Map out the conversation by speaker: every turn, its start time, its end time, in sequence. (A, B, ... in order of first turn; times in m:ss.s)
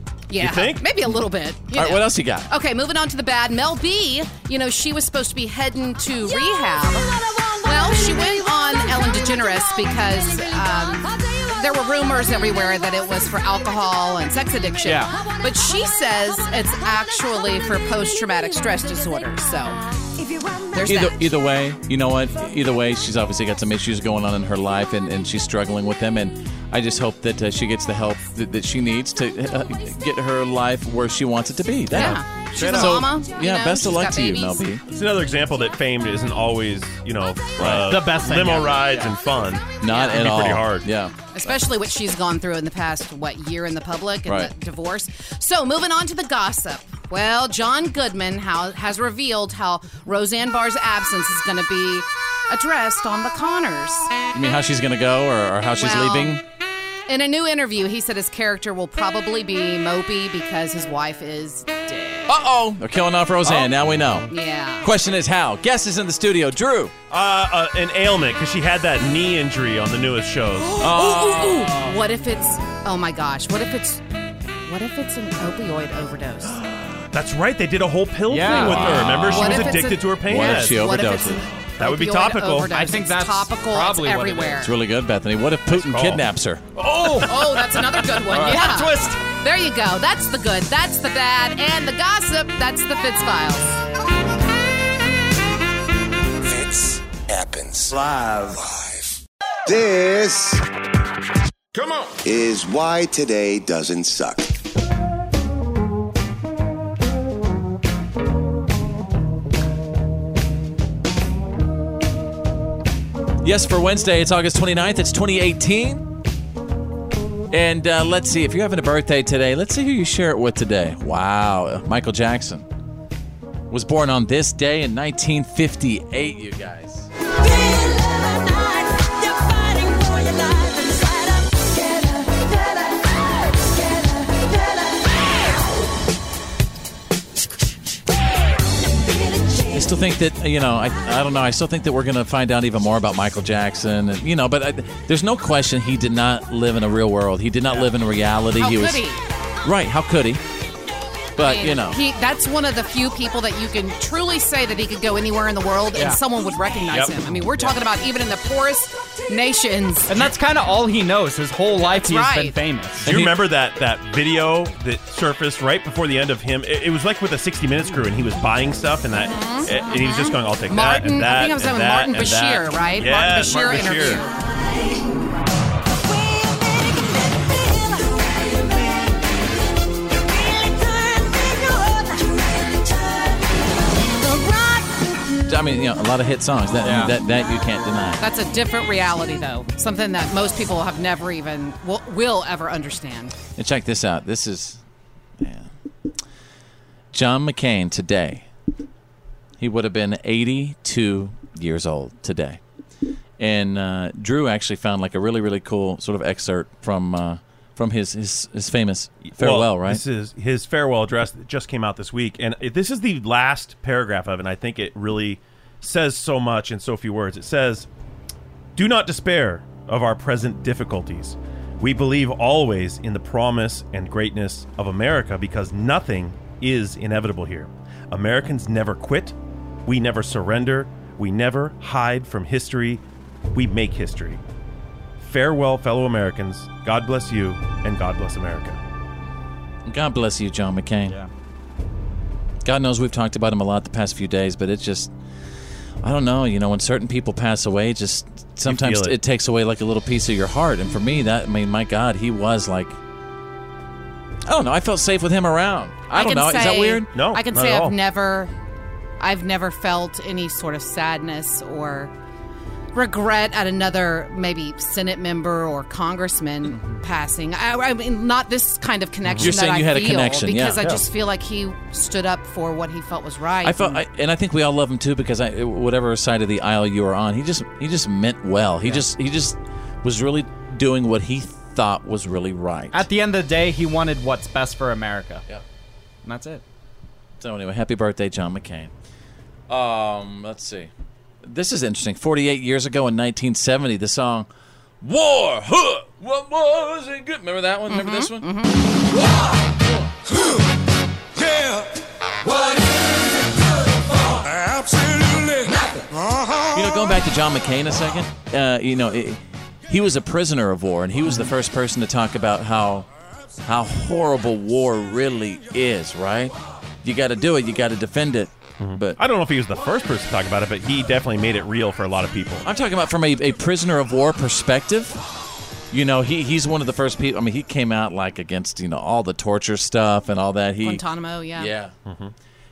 0:00.3-0:19.8 A
0:00.4-0:00.8 B
0:01.7-0:02.5 C
0:14.8-0:15.1 D
0:20.7-0:21.3 A
0:20.8-0:34.8 C
0:31.9-0:34.7 A
0:32.6-0:32.9 B
0:34.9-0:40.8 B
0:37.6-0:38.0 C
0:37.7-0:39.2 D
0:39.8-0:41.3 C
0:39.8-0:40.2 A
0:41.3-0:54.1 A
0:44.2-0:44.5 C
0:54.3-0:56.4 C
0:55.8-0:56.4 A
0:57.1-1:02.3 A
1:02.3-1:04.3 C
1:04.3-1:04.9 A
1:04.8-1:06.9 C
1:07.1-1:10.8 B
1:10.8-1:14.0 A
1:10.8-1:11.8 C
1:14.6-1:16.6 A
1:17.1-1:20.8 B
1:18.3-1:19.2 D
1:18.5-1:21.4 C
1:18.6-1:24.7 A
1:21.8-1:22.7 B
1:22.7-1:24.6 D
1:24.6-1:27.4 C
1:25.7-1:26.2 B
1:26.9-1:27.3 D
1:27.2-1:33.8 A
1:28.3-1:29.2 D
1:28.5-1:28.9 B
1:36.4-1:40.6 E
1:42.2-1:44.5 E
1:53.4-1:56.1 C
1:57.5-2:02.7 C
2:03.7-2:07.1 C
2:19.7-2:29.0 C
2:28.6-2:29.2 A
2:29.6-2:30.4 C
2:31.4-2:32.0 C
2:31.4-2:40.2 A
2:40.1-2:43.1 D
2:41.8-2:42.6 A
2:43.0-2:54.2 B
2:43.0-2:43.3 C
2:49.2-2:54.3 A
3:05.4-3:08.2 C
3:06.8-3:07.1 D
3:08.2-3:13.3 A
3:13.6-3:14.8 C
3:15.4-3:15.7 C
3:17.1-3:18.5 C
3:19.6-3:22.6 C
3:23.4-3:30.0 C
3:29.2-3:37.9 B
3:38.8-3:49.3 B
3:49.8-3:53.0 B
3:53.5-3:54.4 B
3:55.2-3:58.8 B
3:59.8-4:01.2 C
4:02.6-4:05.1 C
4:06.0-4:13.0 C
4:08.6-4:09.2 B
4:14.4-4:17.1 C
4:16.1-4:18.5 A
4:17.1-4:17.9 B
4:19.2-4:22.1 A
4:22.9-4:34.0 A
4:29.2-4:29.5 B
4:29.4-4:30.9 C
4:33.6-4:43.0 C
4:42.9-4:45.4 D
4:46.2-4:46.6 D
4:47.4-4:48.9 C
4:49.7-4:50.9 C
4:51.4-4:54.5 C
4:55.0-4:58.5 C
4:57.9-4:58.8 A
5:06.7-5:13.1 C
5:13.6-5:19.2 C
5:18.8-5:22.6 B
5:22.6-5:25.2 C
5:25.9-5:31.0 C
5:30.8-5:31.7 A
5:31.6-5:31.9 C
5:32.0-5:32.3 B